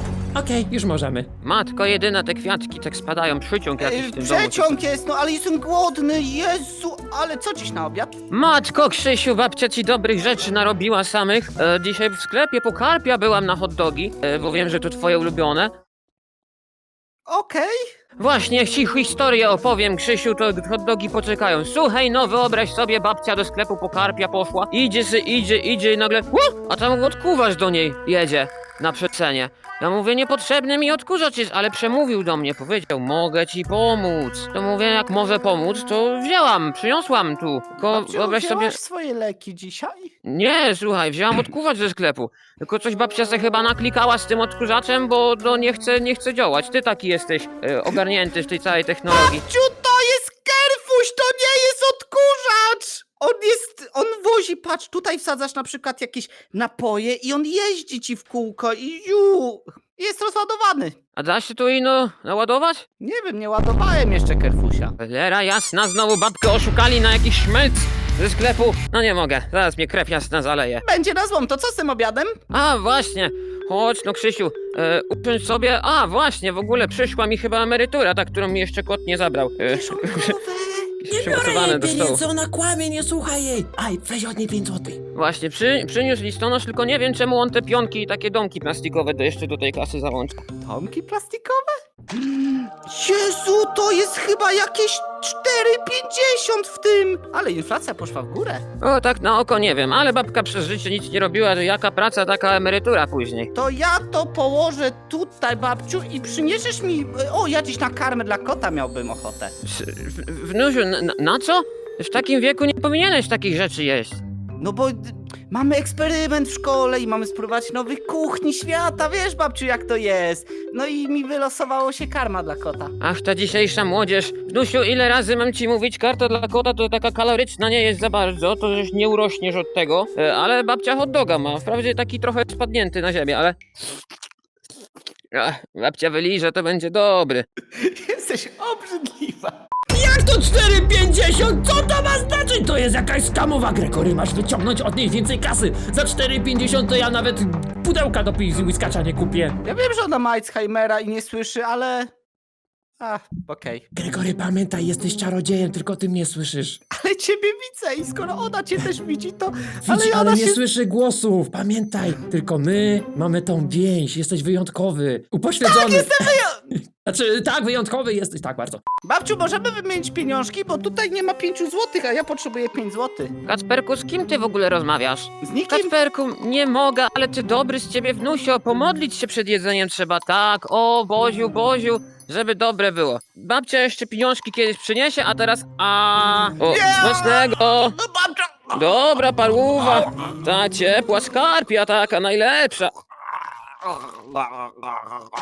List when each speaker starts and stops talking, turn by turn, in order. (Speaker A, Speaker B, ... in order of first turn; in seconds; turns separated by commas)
Speaker A: 0.3-1.3, Speaker B: 1.4-4.8, Speaker C: 3.8-8.2, Speaker B: 8.3-15.7, Speaker C: 17.3-17.8, Speaker B: 18.2-38.8, Speaker C: 37.8-40.1, Speaker B: 40.2-49.4, Speaker C: 49.1-61.0, Speaker B: 61.2-62.9, Speaker C: 63.0-65.0, Speaker B: 65.0-70.8, Speaker C: 70.8-72.4, Speaker B: 72.5-80.4, Speaker C: 79.7-81.0, Speaker B: 81.0-82.2, Speaker A: 81.1-85.0, Speaker B: 85.2-90.4, Speaker C: 90.6-98.6, Speaker B: 98.8-103.5, Speaker C: 103.5-109.5, Speaker B: 109.6-114.2, Speaker C: 114.6-122.9, Speaker B: 123.0-133.6, Speaker B: 135.3-137.5, Speaker C: 137.8-139.6, Speaker A: 139.9-149.6, Speaker C: 149.6-152.1, Speaker C: 153.0-153.8, Speaker A: 153.9-156.8, Speaker C: 156.9-160.6, Speaker A: 159.8-168.8, Speaker C: 165.6-166.7, Speaker C: 169.0-173.4, Speaker B: 173.5-188.0, Speaker C: 175.4-175.9, Speaker C: 186.7-188.8, Speaker B: 188.7-192.9, Speaker B: 193.9-195.2